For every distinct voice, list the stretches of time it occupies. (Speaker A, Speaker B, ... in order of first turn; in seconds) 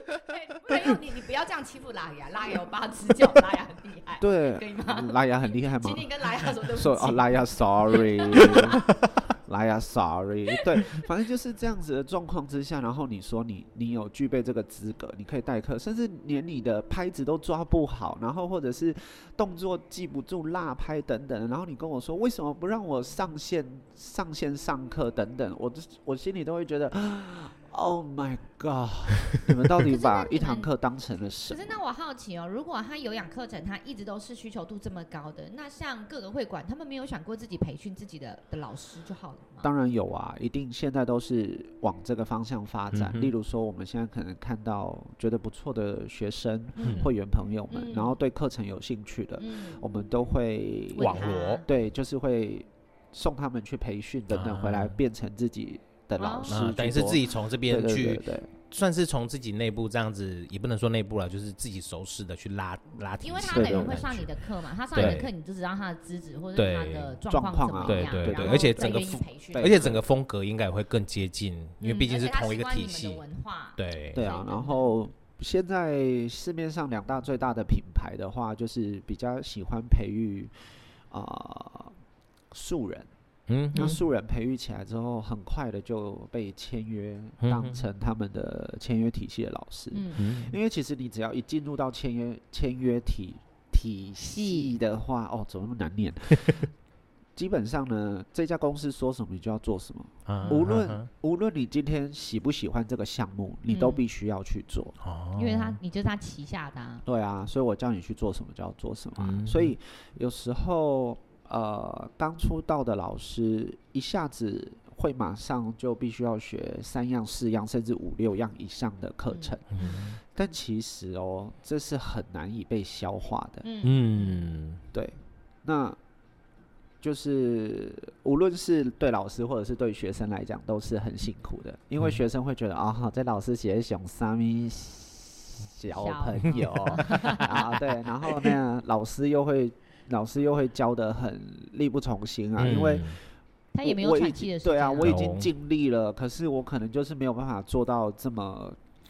Speaker A: 0.2-9.0, 29.8-30.7, 31.4-39.7, 46.8-47.1, 47.7-48.2, 49.4-49.8, 50.9-51.6, 56.2-56.7, 63.2-70.0, 71.8-74.9, 83.7-84.0, 89.9-90.2, 94.2-94.7, 103.7-104.0, 105.3-107.0, 119.3-120.0, 123.6-124.4, 135.9-137.8, 143.7-145.2
Speaker B: 4.2-6.1, 6.7-31.8, 39.6-58.5, 63.5-64.1, 64.9-65.2, 67.3-70.0, 74.1-80.5, 81.1-81.9, 82.5-83.1, 83.7-96.7, 97.3-104.9, 107.0-123.7, 124.9-126.0, 127.0-143.2, 143.8-148.8
Speaker C: 42.9-43.3, 46.8-47.1, 51.0-51.6, 54.3-55.0, 56.5-64.3, 64.9-65.3, 66.5-67.2, 67.8-73.2, 73.8-74.2, 83.5-84.0, 87.4-87.8, 90.2-90.5, 100.3-101.1, 105.0-105.8, 109.2-109.7, 119.7-120.2, 123.8-124.8, 142.6-143.2, 145.0-145.5